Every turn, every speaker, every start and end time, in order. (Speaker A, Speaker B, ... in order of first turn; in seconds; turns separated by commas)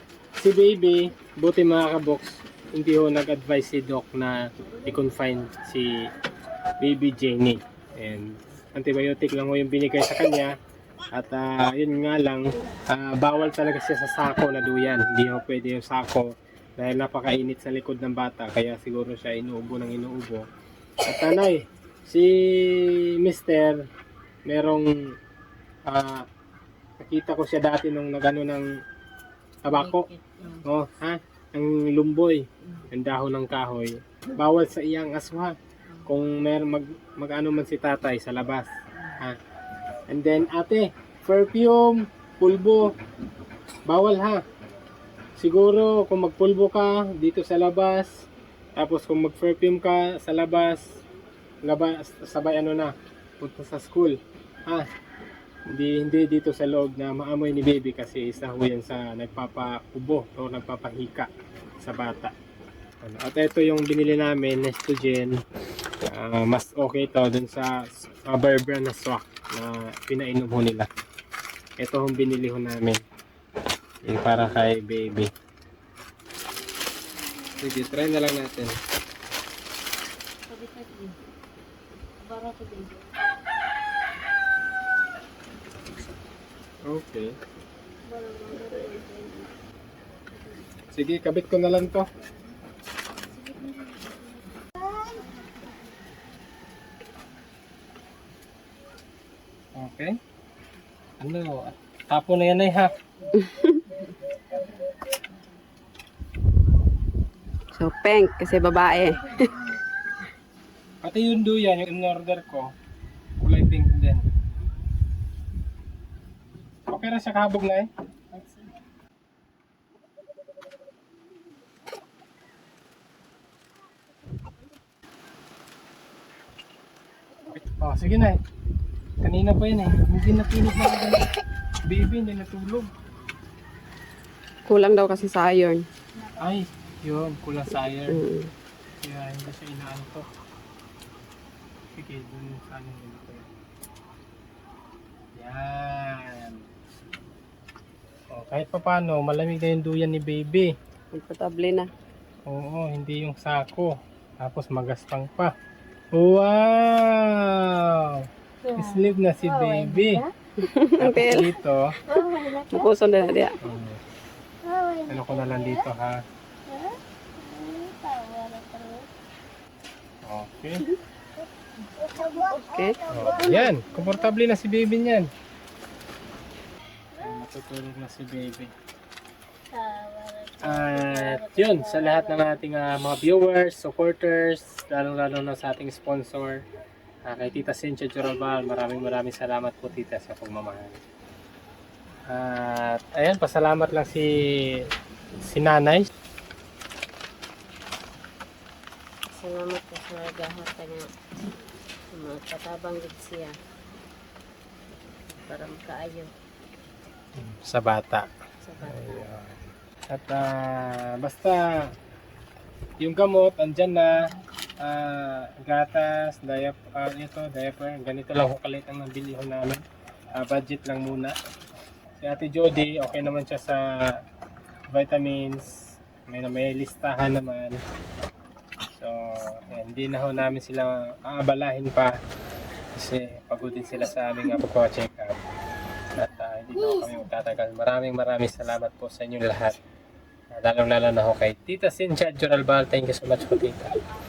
Speaker A: 0.4-6.1, Speaker A: 6.8-10.5, Speaker A: 11.1-20.4, Speaker A: 21.0-23.8, Speaker A: 24.4-24.9, Speaker A: 25.9-26.2, Speaker A: 27.0-28.6, Speaker A: 29.6-30.0, Speaker B: 29.7-30.6, Speaker A: 30.6-35.5, Speaker A: 36.0-38.7, Speaker A: 40.1-42.9, Speaker A: 43.9-44.4, Speaker A: 45.4-48.2, Speaker A: 48.8-51.0, Speaker A: 51.6-54.2, Speaker A: 55.7-61.3, Speaker A: 61.8-62.3, Speaker A: 63.0-65.4, Speaker A: 66.0-70.9, Speaker A: 71.8-73.0, Speaker A: 74.0-75.3, Speaker A: 77.6-78.8, Speaker B: 80.5-81.1, Speaker B: 82.2-83.1, Speaker A: 86.8-87.3, Speaker B: 88.1-89.5, Speaker A: 90.9-92.1, Speaker A: 99.8-100.2, Speaker A: 101.2-102.9, Speaker C: 103.3-103.8, Speaker C: 107.7-109.5, Speaker A: 111.0-112.7, Speaker A: 113.4-114.2, Speaker A: 116.9-117.9, Speaker B: 118.3-118.7, Speaker A: 127.5-128.4, Speaker A: 129.2-131.2, Speaker A: 131.8-132.9, Speaker C: 134.7-135.9, Speaker A: 136.4-138.2, Speaker C: 138.1-138.5, Speaker A: 139.0-140.2, Speaker A: 141.9-143.5, Speaker A: 145.3-146.7, Speaker A: 148.3-150.7, Speaker C: 151.1-151.9, Speaker A: 152.4-155.5, Speaker A: 156.1-160.2, Speaker B: 158.7-160.3, Speaker C: 160.6-161.5, Speaker A: 161.0-161.9, Speaker B: 162.1-162.9, Speaker C: 162.7-163.5, Speaker A: 163.6-164.0, Speaker B: 164.7-165.6, Speaker A: 165.1-166.2, Speaker B: 166.7-169.1, Speaker A: 170.2-170.8, Speaker B: 172.0-173.9, Speaker C: 172.6-173.0, Speaker A: 173.1-175.3, Speaker A: 177.2-178.7, Speaker B: 179.7-182.5, Speaker A: 180.6-186.6, Speaker A: 187.2-191.0, Speaker A: 192.3-194.9, Speaker A: 195.4-196.1, Speaker B: 199.3-201.1, Speaker B: 202.1-203.6, Speaker B: 205.4-206.3, Speaker A: 207.4-208.3, Speaker B: 208.6-209.0, Speaker A: 208.8-209.5, Speaker A: 210.1-211.9, Speaker A: 213.0-214.3, Speaker A: 214.8-219.8, Speaker A: 220.4-221.4, Speaker A: 222.2-224.2, Speaker A: 224.9-227.8, Speaker A: 228.9-232.2, Speaker A: 232.9-235.4, Speaker A: 236.2-239.8, Speaker A: 240.5-244.0